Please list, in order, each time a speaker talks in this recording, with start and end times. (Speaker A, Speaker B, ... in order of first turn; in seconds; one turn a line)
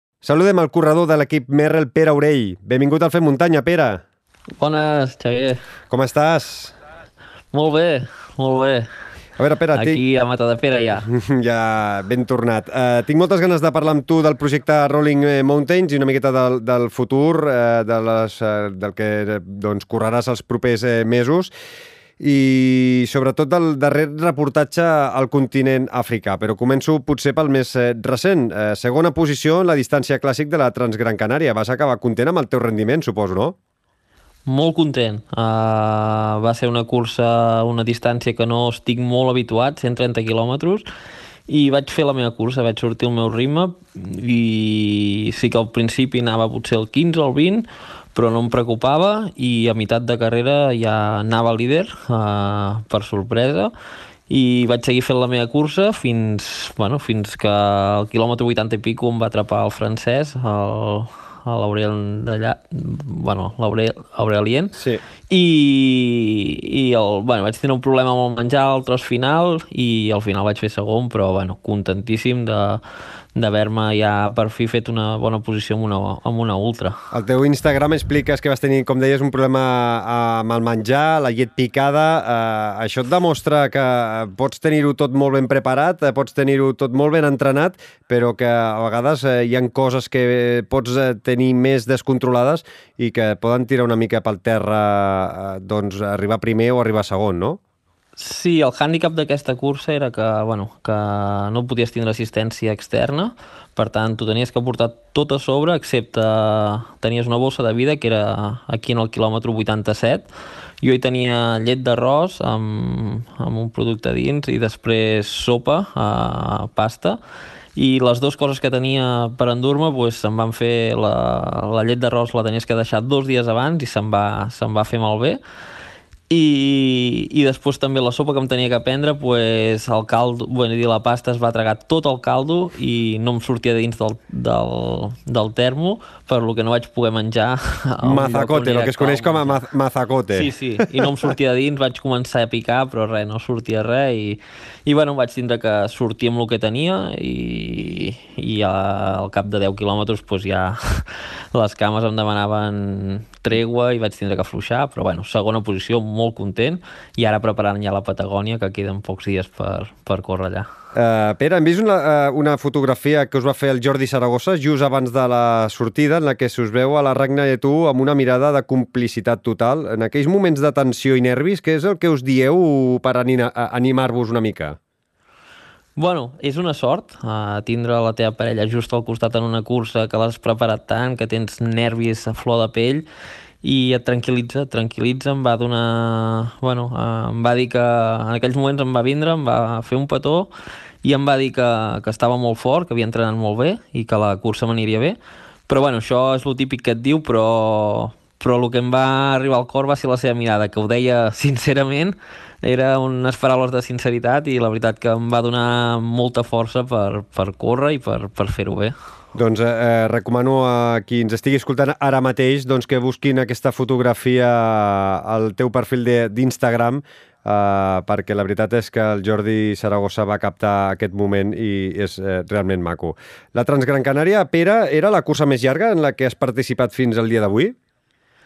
Speaker A: 0.2-4.0
Speaker B: 4.6-5.6
Speaker A: 5.9-6.8
Speaker B: 7.5-8.9
Speaker A: 9.4-10.0
Speaker B: 9.7-11.1
Speaker A: 11.0-21.5
Speaker A: 22.2-33.5
Speaker B: 34.5-40.8
Speaker B: 41.5-53.7
Speaker B: 54.3-64.8
Speaker A: 64.8-65.0
Speaker B: 65.3-72.8
Speaker B: 73.4-77.0
Speaker A: 77.1-97.6
Speaker B: 98.2-110.3
Speaker B: 110.8-117.2
Speaker B: 117.8-125.4
Speaker B: 126.3-139.6
Speaker A: 138.0-141.3
Speaker B: 140.3-160.7
Speaker A: 160.9-174.8
Speaker B: 176.0-183.1
Speaker B: 183.6-190.5
Speaker B: 191.0-195.2
Speaker B: 195.7-208.9
Speaker A: 209.3-227.8